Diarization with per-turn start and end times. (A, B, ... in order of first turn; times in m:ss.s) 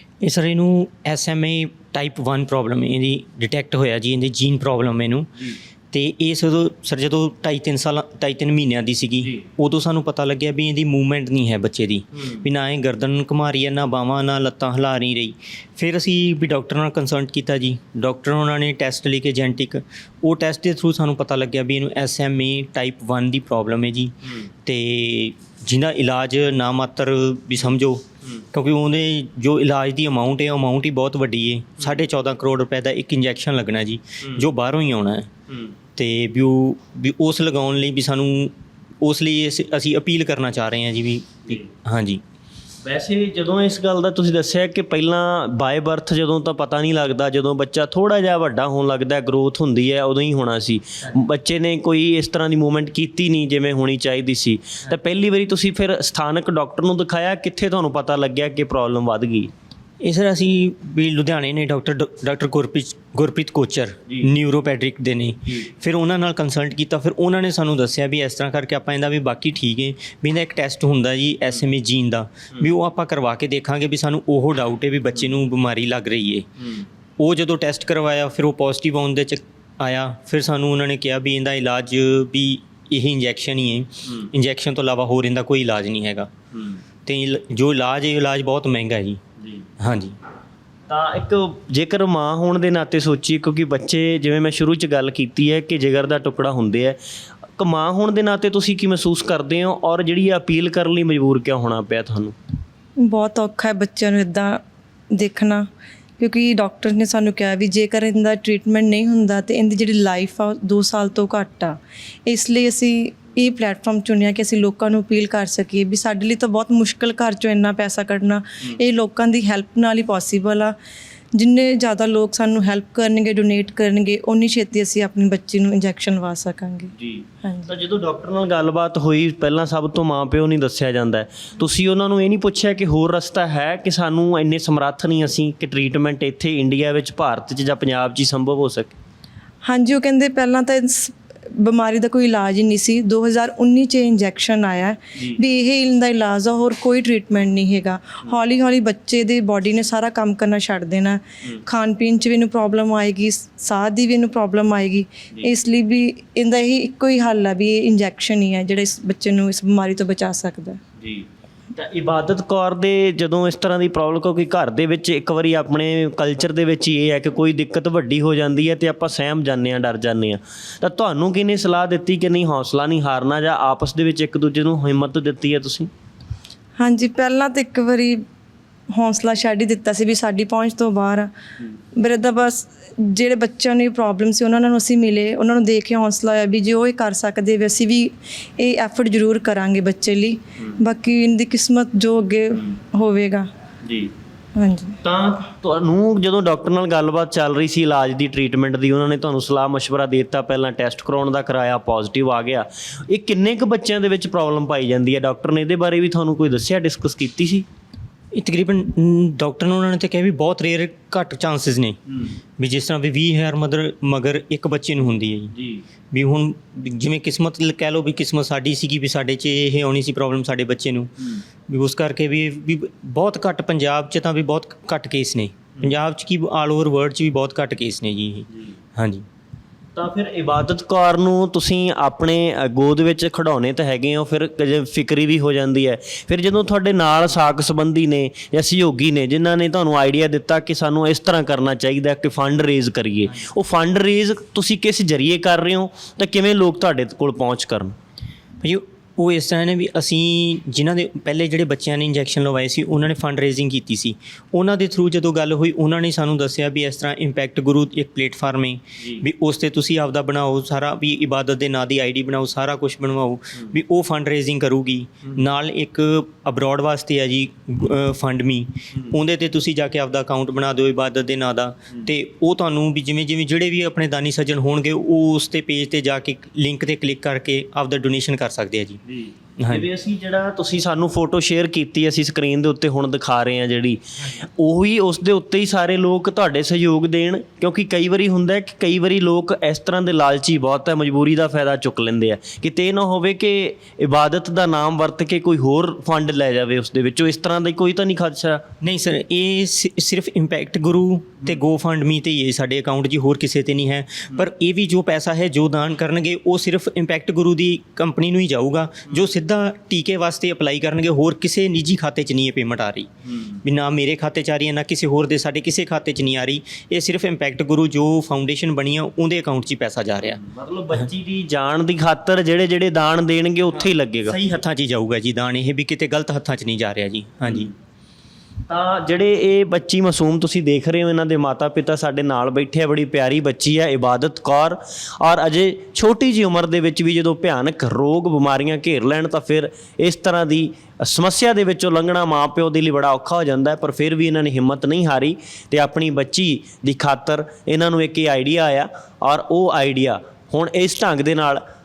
0:00.2-0:35.3 A
0:36.0-0:42.2 A
0:42.8-0:59.5 B
1:00.0-1:16.5 A
1:17.2-1:26.3 A
1:27.0-1:29.2 A
1:29.8-1:30.2 A
1:30.9-1:37.0 B
1:37.6-1:42.4 B
1:43.0-1:44.6 C
1:45.1-1:45.7 C
1:46.2-2:00.7 C
2:01.3-2:06.9 C
2:06.9-2:18.9 B
2:07.4-2:07.7 C
2:19.6-2:40.8 C
2:41.0-2:55.9 B
2:56.8-2:58.2 C
2:58.9-3:01.3 C
3:01.9-3:13.5 C
3:13.8-3:14.1 B
3:14.6-3:15.0 C
3:15.0-3:27.6 B
3:28.3-3:35.5 A
3:35.6-3:35.8 B
3:36.1-3:49.2 A
3:50.0-4:07.9 B
4:08.6-4:39.0 A
4:39.1-4:58.6 B
4:39.6-4:39.8 A
4:58.8-5:13.1 A
5:13.6-5:20.4 A
5:20.3-5:24.4 B
5:24.2-5:27.7 A
5:28.7-5:51.6 B